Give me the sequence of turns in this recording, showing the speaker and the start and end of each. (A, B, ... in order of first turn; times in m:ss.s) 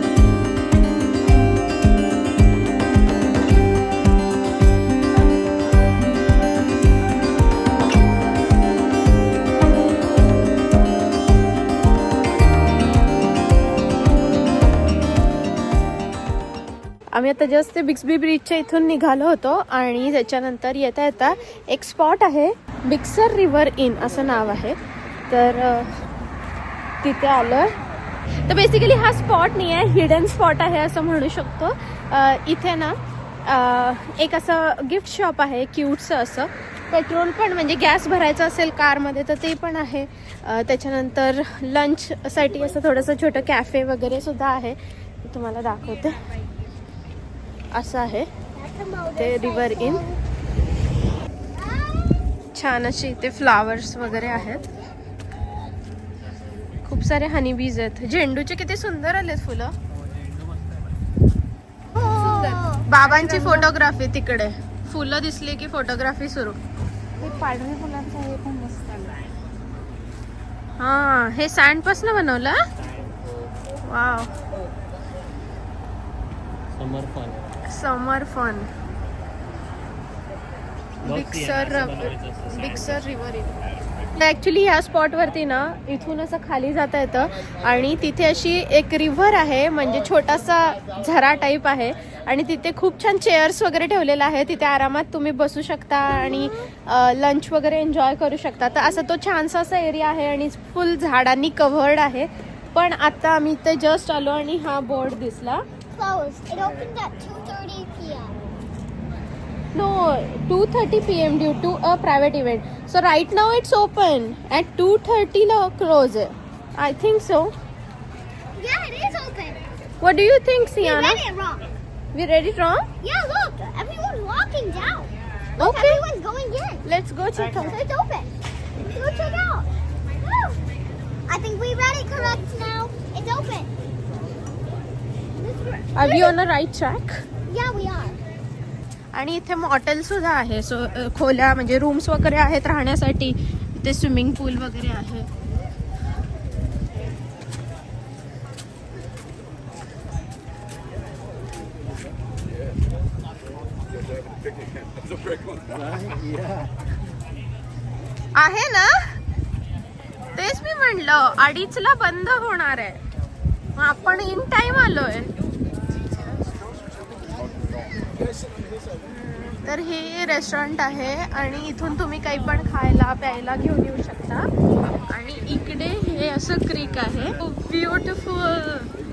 0:17.1-0:24.8 A
0:25.3-0:25.9 A
0:27.0-0:27.7 A
0:28.4-0:46.2 A
0:47.7-0:48.3 A
0:48.5-0:50.2 B
0:49.1-0:50.0 A
0:51.6-0:52.2 B
0:52.5-0:54.7 A
0:56.8-0:59.7 A
0:59.9-1:00.9 C
1:02.0-1:02.8 B
1:02.0-1:03.6 D
1:02.9-1:06.6 A
1:07.2-1:09.4 D
1:10.8-1:12.6 A
1:12.8-1:13.6 C
1:13.8-1:14.3 A
1:16.7-1:17.6 C
1:17.7-1:18.7 A
1:21.0-1:23.6 A
1:21.0-1:23.0 C
1:24.2-1:45.6 A
1:45.9-1:48.4 B
1:49.7-1:57.5 A
1:58.6-1:59.6 B
2:00.0-2:01.2 A
2:00.8-2:01.6 B
2:02.1-2:02.9 A
2:03.0-2:06.8 B
2:05.6-2:06.0 A
2:06.8-2:07.8 A
2:07.6-2:08.3 B
2:08.9-2:10.6 B
2:11.3-2:13.7 B
2:15.4-2:16.4 B
2:16.0-2:17.2 A
2:17.5-2:18.2 B
2:19.1-2:25.3 A
2:38.3-2:39.1 A
2:40.3-2:43.0 A
2:43.8-2:45.3 A
2:49.0-2:54.5 A
2:55.0-2:58.9 A